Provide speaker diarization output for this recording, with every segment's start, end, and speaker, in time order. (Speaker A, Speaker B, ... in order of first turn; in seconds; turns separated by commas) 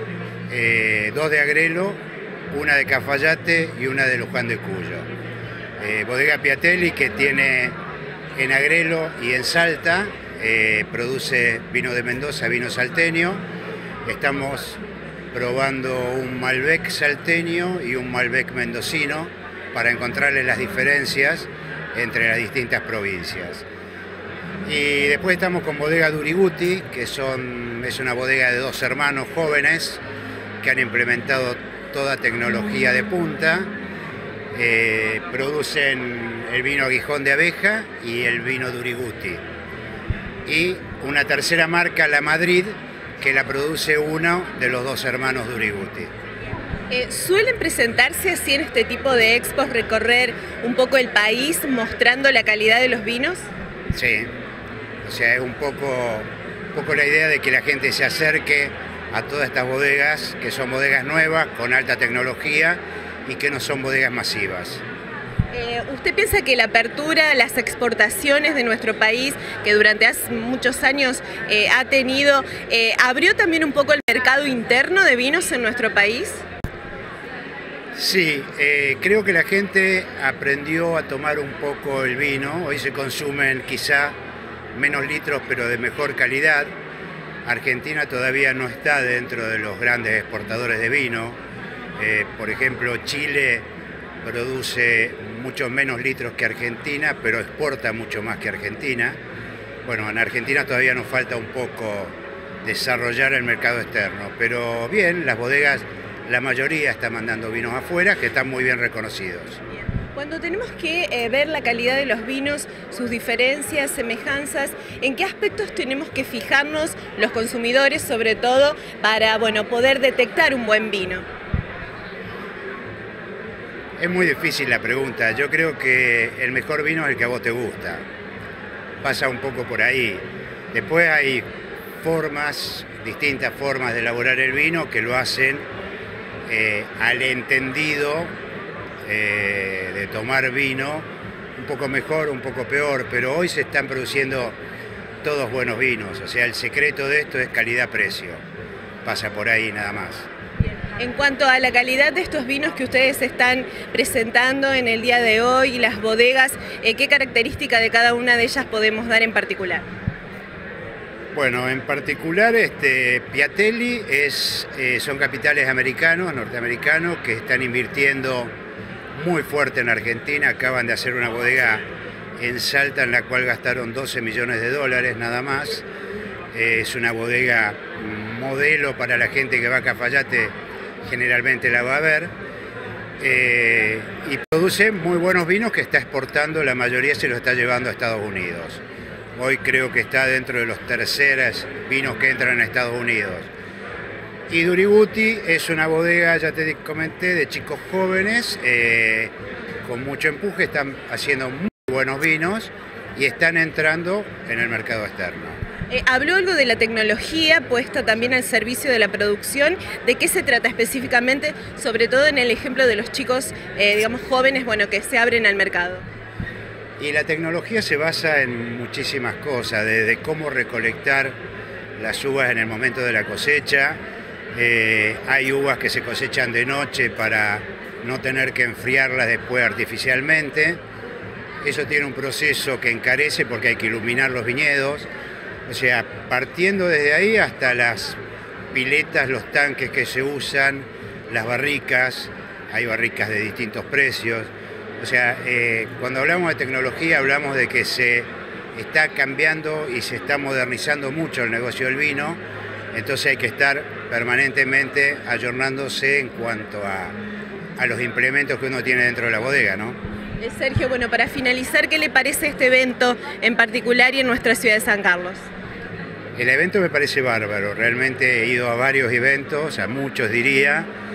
Speaker A: 0.5-2.0, Speaker A: 2.5-5.1, Speaker A: 5.8-7.8, Speaker A: 8.4-13.4, Speaker A: 14.1-14.8, Speaker A: 15.3-23.7, Speaker A: 24.7-30.0, Speaker A: 30.6-33.7, Speaker A: 34.5-39.4, Speaker A: 40.5-46.1, Speaker B: 46.9-53.5, Speaker A: 53.9-54.3, Speaker A: 55.0-64.8, Speaker B: 65.5-76.4, Speaker A: 78.0-84.1, Speaker A: 84.7-86.7, Speaker A: 87.5-91.4, Speaker A: 92.0-93.7, Speaker A: 94.2-99.2, Speaker A: 99.8-109.6, Speaker B: 110.2-121.2, Speaker A: 124.0-128.0, Speaker A: 129.0-131.4, Speaker A: 132.0-135.7, Speaker A: 136.5-138.3, Speaker A: 139.1-141.1, Speaker A: 141.6-144.6, Speaker A: 145.2-148.4, Speaker A: 149.1-150.3, Speaker B: 151.0-159.8, Speaker A: 161.3-168.5, Speaker A: 169.2-171.8, Speaker A: 172.4-175.8, Speaker A: 176.5-182.3, Speaker A: 183.2-188.8, Speaker A: 189.4-193.5, Speaker A: 194.5-199.3, Speaker A: 199.8-205.6, Speaker B: 205.9-216.0, Speaker A: 217.0-221.3, Speaker A: 222.0-224.0, Speaker A: 224.5-230.8, Speaker A: 231.6-235.1, Speaker A: 235.7-238.2, Speaker A: 238.7-252.4, Speaker A: 252.9-257.1, Speaker A: 257.8-260.0, Speaker B: 260.4-265.5, Speaker A: 266.4-270.9